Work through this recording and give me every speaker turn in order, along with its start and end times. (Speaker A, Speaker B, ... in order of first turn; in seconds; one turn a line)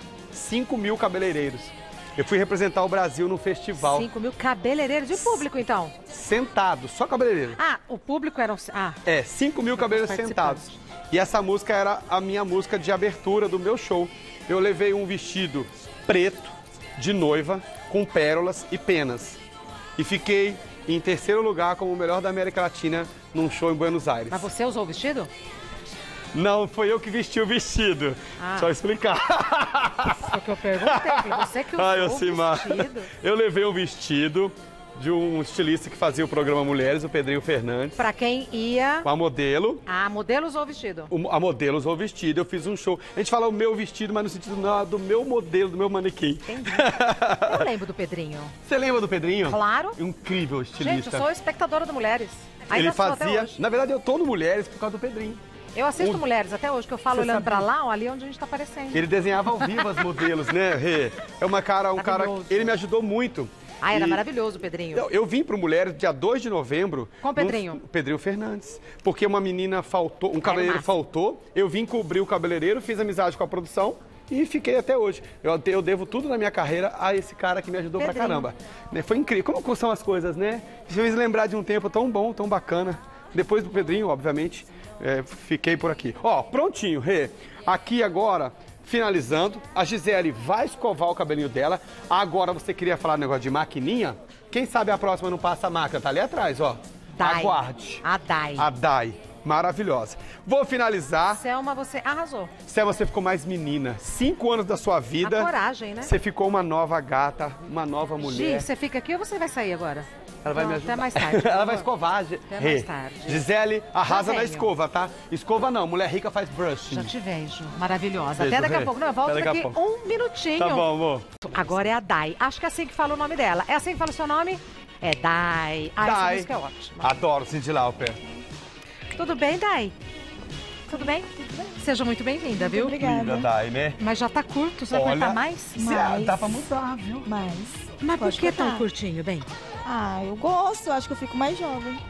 Speaker A: 0.3-4.1
Speaker B: 3.8-5.9
Speaker A: 5.2-5.4
Speaker A: 6.1-7.6
Speaker B: 7.6-9.0
Speaker A: 9.0-19.4
Speaker B: 9.7-10.8
Speaker A: 20.0-24.5
Speaker B: 24.3-25.3
Speaker A: 26.3-38.0
Speaker B: 28.4-28.7
Speaker B: 30.2-33.1
Speaker B: 38.0-39.1
Speaker A: 39.0-39.8
Speaker B: 39.9-41.1
Speaker A: 41.1-47.7
Speaker B: 46.5-48.5
Speaker A: 48.6-51.3
Speaker B: 49.5-50.0
Speaker B: 50.8-53.6
Speaker A: 52.7-55.4
Speaker B: 55.8-59.0
Speaker A: 57.1-57.7
Speaker A: 58.9-64.2
Speaker B: 59.6-59.8
Speaker B: 62.0-62.8
Speaker B: 63.8-65.0
Speaker A: 64.9-98.0
Speaker B: 67.2-67.8
Speaker B: 70.4-70.9
Speaker B: 78.0-78.5
Speaker B: 97.2-98.7
Speaker A: 98.6-101.4
Speaker B: 101.3-102.5
Speaker A: 102.7-108.7
Speaker B: 105.2-106.1
Speaker B: 108.2-111.9
Speaker A: 110.4-117.1
Speaker B: 112.5-113.4
Speaker B: 114.0-114.7
Speaker B: 116.9-120.9
Speaker A: 118.4-119.8
Speaker A: 120.6-121.4
Speaker B: 121.4-127.2
Speaker A: 126.0-126.5
Speaker A: 127.0-128.2
Speaker B: 129.1-129.9
Speaker B: 130.9-133.0
Speaker C: 132.5-133.5
Speaker A: 133.0-134.0
Speaker B: 134.0-136.2
Speaker A: 134.9-137.3
Speaker C: 135.9-136.6
Speaker C: 137.2-138.8
Speaker B: 138.0-139.5
Speaker C: 139.8-142.0